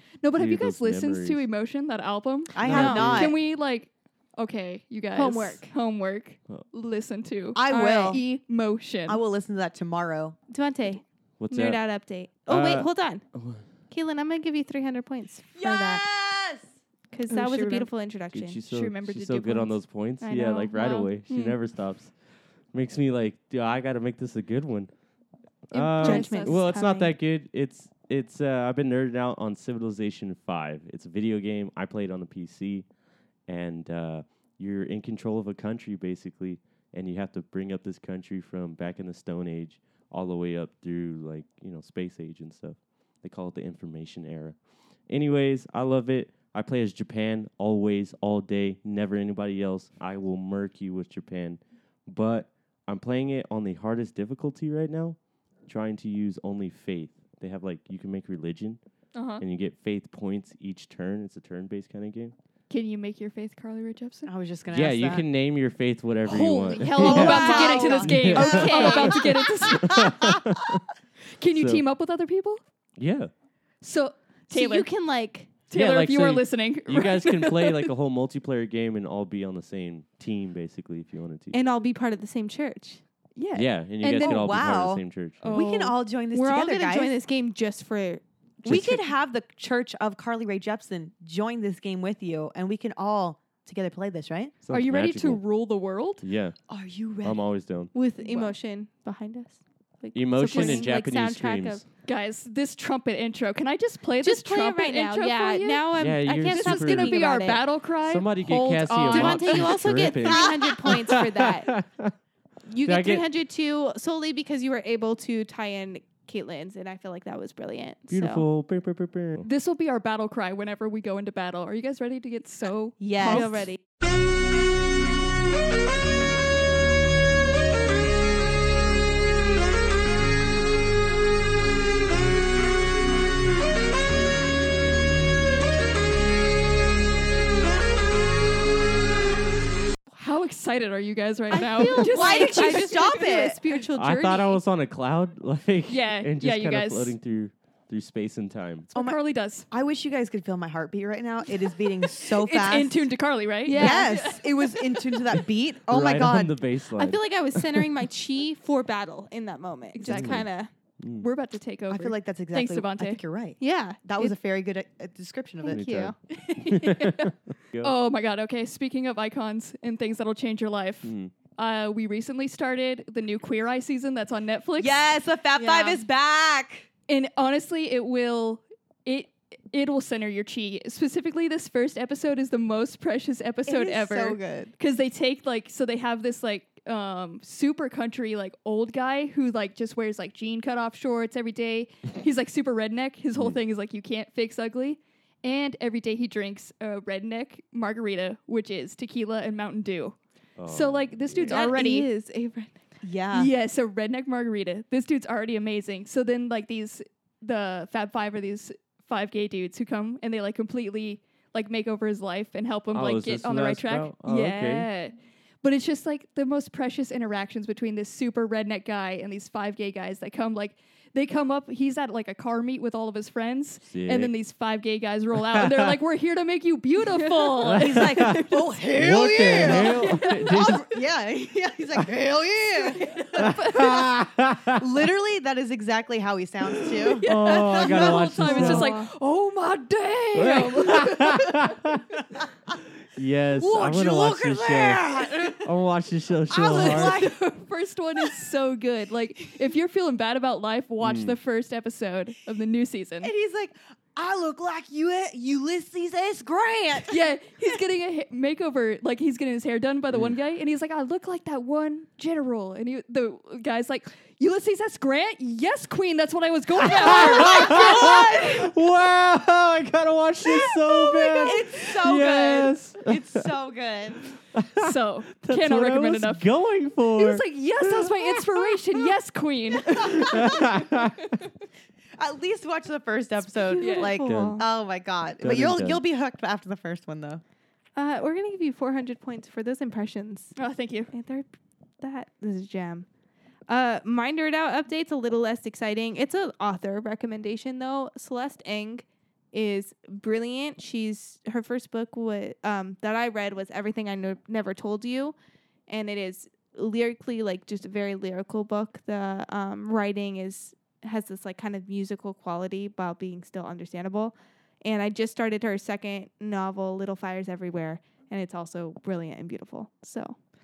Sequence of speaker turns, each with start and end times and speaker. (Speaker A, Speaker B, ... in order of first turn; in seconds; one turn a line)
Speaker A: 0.2-9.2
Speaker B: 0.3-1.4
Speaker C: 2.5-3.4
Speaker B: 2.6-3.3
Speaker D: 2.7-3.1
Speaker D: 5.1-5.7
Speaker C: 7.5-8.2
Speaker D: 7.7-8.2
Speaker C: 9.1-10.4
Speaker D: 10.5-13.2
Speaker B: 11.4-11.8
Speaker B: 12.5-13.6
Speaker D: 13.9-16.0
Speaker C: 15.6-16.6
Speaker D: 17.1-18.6
Speaker A: 17.3-17.9
Speaker B: 18.3-22.1
Speaker A: 18.7-21.6
Speaker B: 22.7-24.9
Speaker B: 25.7-32.9
Speaker A: 25.7-26.6
Speaker D: 26.0-27.1
Speaker B: 33.5-44.5
Speaker B: 45.1-58.8
Speaker A: 59.1-59.4
Speaker B: 59.4-62.3
Speaker A: 62.7-64.3
Speaker C: 64.2-65.2
Speaker B: 64.7-70.8
Speaker A: 66.3-70.2
Speaker C: 66.9-70.4
Speaker D: 67.1-68.0
Speaker D: 68.7-69.0
Speaker A: 71.4-72.6
Speaker B: 71.5-71.8
Speaker B: 73.0-73.3
Speaker A: 73.8-74.9
Speaker D: 74.5-75.6
Speaker A: 75.7-77.9
Speaker B: 75.7-81.5
Speaker D: 81.5-83.0
Speaker A: 83.3-84.5
Speaker B: 83.5-85.4
Speaker C: 84.0-87.1
Speaker A: 85.4-85.9
Speaker D: 86.3-88.2
Speaker C: 88.6-94.5
Speaker B: 88.6-89.0
Speaker B: 94.6-95.4
Speaker A: 94.7-96.2
Speaker B: 96.2-96.6
Speaker C: 96.7-97.4
Speaker B: 97.2-97.9
Speaker D: 97.9-101.8
Speaker A: 98.2-98.5
Speaker B: 100.1-101.8
Speaker A: 100.4-100.9
Speaker A: 102.0-105.8
Speaker D: 104.2-107.6
Speaker B: 106.0-107.3
Speaker A: 106.5-109.9
Speaker B: 108.0-112.1
Speaker D: 109.1-111.7
Speaker D: 112.7-118.4
Speaker B: 112.8-113.2
Speaker B: 118.1-119.5
Speaker A: 119.4-123.6
Speaker C: 123.0-123.6
Speaker D: 123.2-123.8
Speaker A: 140.2-142.9
Speaker D: 141.5-144.6
Speaker C: 141.5-143.6
Speaker B: 144.0-148.9
Speaker A: 145.9-147.1
Speaker A: 148.9-149.7
Speaker C: 149.7-153.0
Speaker A: 152.2-154.9
Speaker D: 153.6-154.4
Speaker C: 153.7-156.5
Speaker B: 155.9-157.9
Speaker D: 156.9-160.7
Speaker A: 159.9-160.4
Speaker B: 160.1-160.4
Speaker B: 161.0-161.3
Speaker A: 161.2-163.2
Speaker C: 161.9-165.8
Speaker D: 163.6-164.3
Speaker D: 165.6-166.1
Speaker B: 165.6-167.9
Speaker A: 166.8-167.2
Speaker A: 167.8-175.1
Speaker B: 171.0-171.3
Speaker C: 174.8-176.9
Speaker D: 175.6-176.0
Speaker A: 177.1-202.1
Speaker C: 183.7-184.7
Speaker B: 200.6-201.7
Speaker D: 201.5-202.8
Speaker C: 203.0-203.5
Speaker A: 203.3-230.8
Speaker B: 212.9-214.9
Speaker B: 223.9-224.3
Speaker B: 225.4-226.0
Speaker B: 227.6-230.9
Speaker C: 227.8-234.1
Speaker A: 233.2-233.9
Speaker B: 233.3-234.8
Speaker C: 234.7-238.9
Speaker A: 237.2-241.8
Speaker B: 237.2-238.9
Speaker D: 238.5-239.0
Speaker B: 240.3-242.2
Speaker B: 243.1-247.3
Speaker C: 243.6-245.7
Speaker C: 246.5-247.4
Speaker A: 246.6-253.3
Speaker B: 251.0-251.4
Speaker C: 253.2-257.7
Speaker A: 257.1-268.5
Speaker B: 266.8-273.5
Speaker C: 266.8-268.7
Speaker C: 270.7-274.2
Speaker B: 274.5-278.3
Speaker A: 274.8-276.5
Speaker A: 277.1-280.9
Speaker B: 279.9-281.3
Speaker C: 280.2-280.7
Speaker C: 282.2-287.4
Speaker D: 283.6-284.6
Speaker A: 283.8-284.2
Speaker B: 284.2-284.6
Speaker B: 285.4-286.0
Speaker D: 287.9-290.6
Speaker A: 290.6-291.1
Speaker D: 291.1-293.1
Speaker D: 293.7-305.3
Speaker D: 305.9-320.4